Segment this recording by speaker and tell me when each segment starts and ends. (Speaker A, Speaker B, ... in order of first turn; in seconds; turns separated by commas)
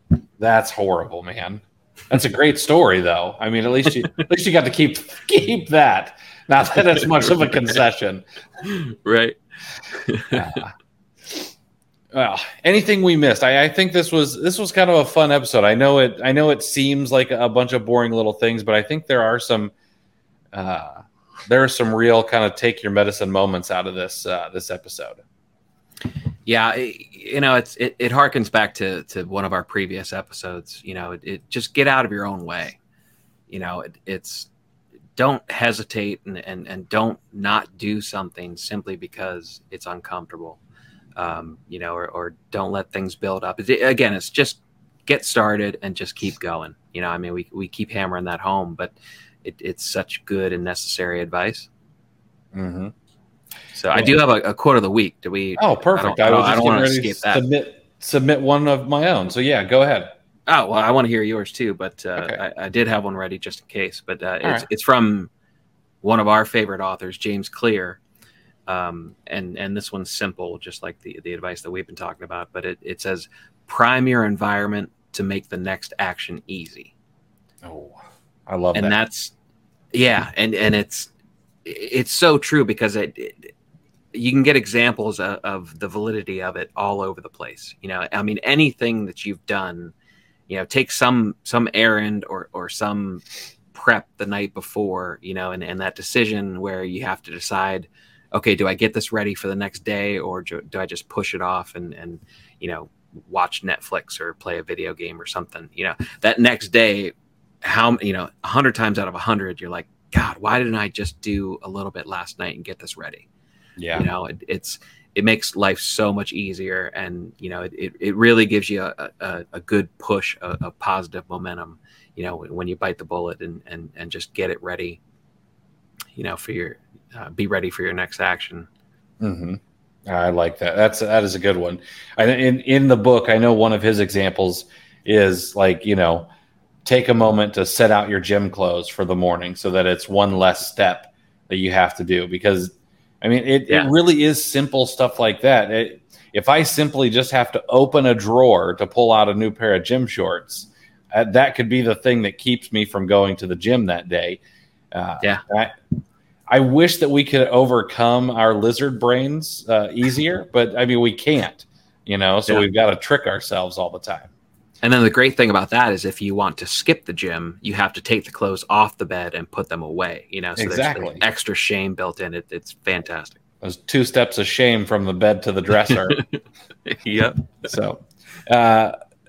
Speaker A: 0.4-8.2, Speaker B: 8.6-9.4, Speaker B: 9.9-10.5, Speaker A: 10.3-10.7, Speaker A: 12.1-19.7, Speaker A: 20.5-25.2, Speaker B: 26.4-32.8, Speaker B: 33.5-34.5, Speaker B: 35.2-40.6, Speaker B: 41.2-51.7, Speaker A: 52.5-52.9, Speaker B: 53.8-57.4, Speaker A: 55.6-60.1, Speaker B: 60.5-65.3, Speaker B: 66.0-68.0, Speaker B: 68.7-76.9, Speaker A: 77.6-79.0, Speaker B: 78.8-79.3, Speaker B: 79.9-81.1, Speaker B: 81.7-83.5, Speaker B: 84.1-89.9, Speaker B: 90.5-113.3, Speaker A: 113.8-114.1, Speaker B: 113.9-125.0, Speaker B: 126.2-128.7, Speaker A: 129.2-136.3, Speaker A: 136.8-154.4, Speaker A: 154.9-155.7, Speaker A: 156.5-164.3, Speaker B: 164.8-173.4, Speaker A: 170.6-171.2, Speaker A: 173.6-176.2, Speaker B: 175.9-176.3, Speaker B: 176.9-177.5, Speaker A: 177.7-178.9